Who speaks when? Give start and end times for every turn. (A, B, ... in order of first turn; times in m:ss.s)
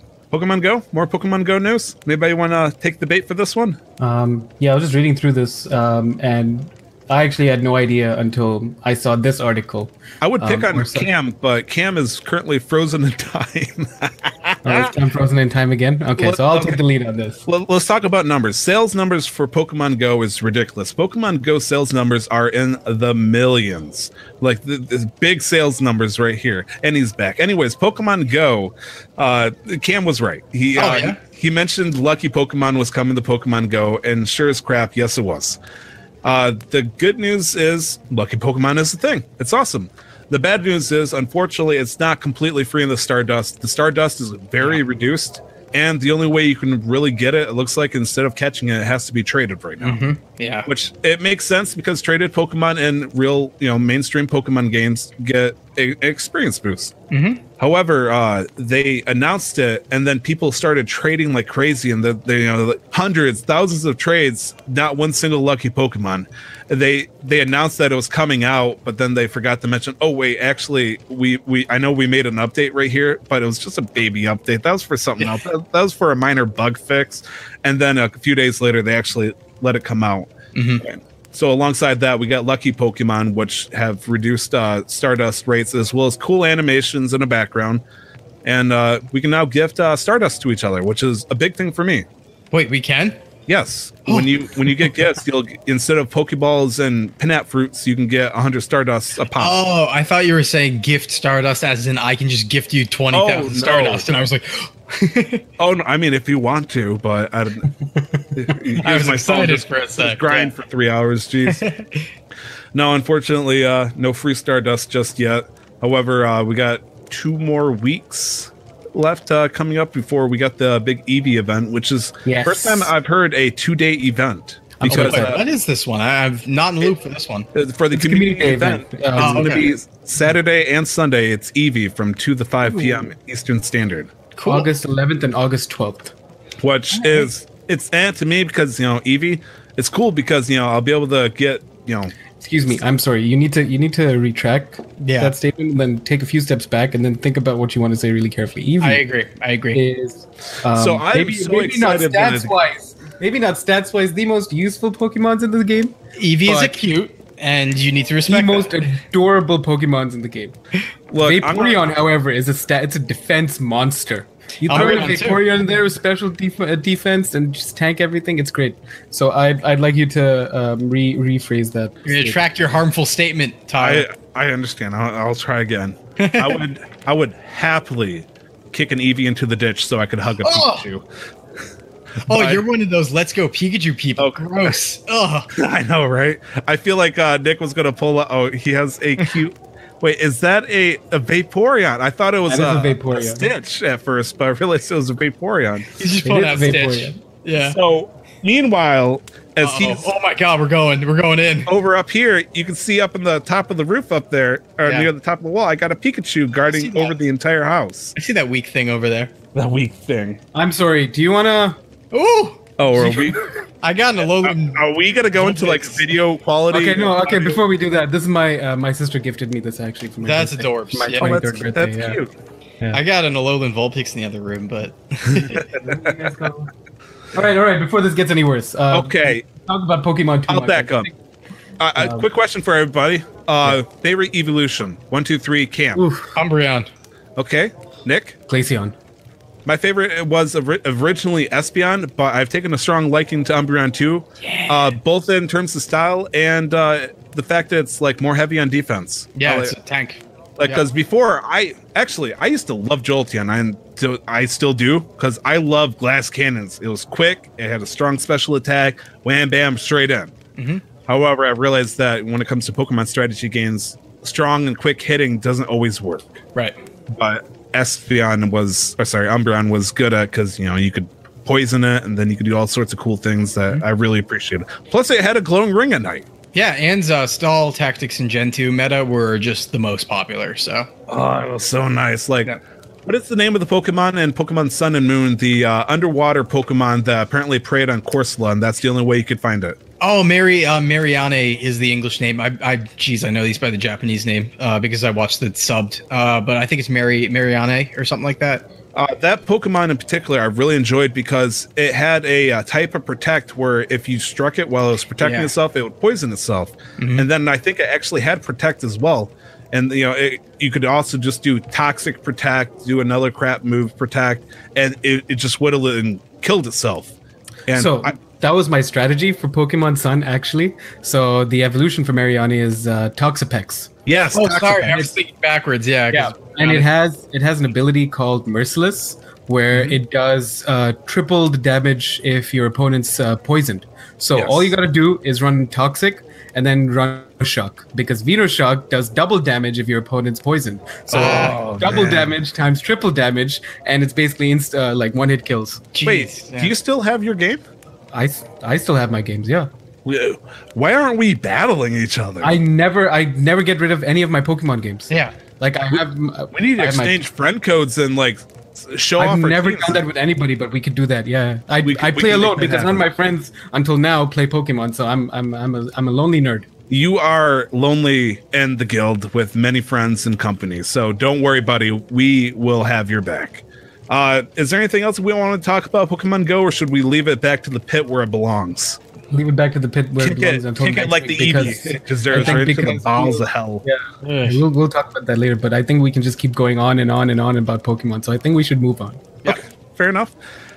0:00.3-0:03.8 A
0:04.0-0:11.1 B
0:10.2-0:14.9 A
0:14.6-0:17.4 B
0:16.2-0:16.8 A
0:17.4-0:35.6 A
0:30.8-0:31.2 C
0:36.2-0:50.0 A
0:49.8-0:50.7 C
0:50.6-0:56.9 A
0:57.1-0:57.4 C
0:57.6-1:20.3 A
1:20.5-1:20.8 C
1:20.8-1:27.8 A
1:28.4-1:32.0 A
1:32.5-1:33.2 C
1:33.5-1:39.5 A
1:34.1-1:34.9 C
1:39.4-1:45.4 C
1:43.1-1:44.1 A
1:45.6-1:47.7 A
1:48.3-1:51.6 A
1:48.8-1:50.5 C
1:51.5-1:52.1 C
1:52.7-2:05.4 A
2:02.2-2:02.9 B
2:04.8-2:05.4 B
2:04.9-2:07.5 C
2:07.5-2:14.1 A
2:07.9-2:09.7 B
2:09.2-2:09.7 C
2:14.4-2:14.7 C
2:14.4-2:16.1 B
2:16.6-2:22.1 A
2:17.0-2:17.3 C
2:22.4-2:29.0 B
2:25.0-2:25.3 C
2:28.8-2:29.8 C
2:29.7-2:36.8 B
2:30.7-2:32.5 A
2:36.2-2:38.9 C
2:38.3-2:40.6 B
2:41.1-2:41.8 A
2:41.2-2:52.4 B
2:44.6-2:45.4 C
2:52.0-2:54.0 C
2:53.8-3:01.0 A
2:56.2-2:56.6 C
3:00.4-3:00.8 C
3:02.3-3:05.5 C
3:02.3-3:02.6 A
3:04.2-3:04.7 A
3:05.5-3:15.9 A
3:12.5-3:13.4 B
3:16.0-3:17.8 C
3:16.2-3:17.2 B
3:17.6-3:20.1 A
3:19.6-3:21.7 C
3:21.7-3:28.1 A
3:26.7-3:27.2 C
3:28.2-3:29.3 C
3:29.5-3:30.4 A
3:30.5-3:31.8 B
3:32.1-3:36.1 C
3:32.8-3:33.5 A
3:34.2-3:37.6 A
3:36.7-3:42.2 B
3:40.2-3:41.4 C
3:41.2-3:42.3 A
3:42.9-3:45.6 C
3:45.3-3:46.1 A
3:45.7-3:46.7 B
3:47.3-3:51.1 B
3:48.9-3:49.4 A
3:50.5-3:51.1 A
3:51.8-3:56.0 A
3:52.0-3:52.2 B
3:55.9-3:56.3 B
3:56.4-3:56.9 C
3:57.4-3:58.4 A
3:58.5-3:58.9 B
3:59.6-4:09.8 A
4:04.4-4:05.0 C
4:09.4-4:10.8 C
4:10.6-4:20.3 A
4:20.6-4:20.8 C
4:21.1-4:26.4 A
4:27.1-4:36.2 A
4:36.5-4:40.9 C
4:41.1-4:42.5 A
4:43.0-4:49.8 A
4:50.0-4:58.7 C
4:58.9-5:17.1 A
5:05.2-5:05.5 C
5:07.0-5:07.3 C
5:17.7-5:18.2 A
5:17.7-5:23.9 B
5:24.0-5:25.1 A
5:24.3-5:26.8 C
5:26.1-5:45.9 B
5:34.3-5:34.7 A
5:41.1-5:42.4 A
5:41.1-5:41.6 C
5:45.9-5:46.7 C
5:46.0-5:47.6 A
5:48.1-5:49.7 B
5:50.0-5:52.6 A
5:52.4-5:57.2 B
5:56.5-6:00.0 A
5:59.2-6:06.7 B
6:01.8-6:03.1 A
6:06.9-6:19.0 A
6:19.3-6:29.3 B
6:20.2-6:23.8 A
6:24.2-6:24.6 C
6:29.4-6:30.3 A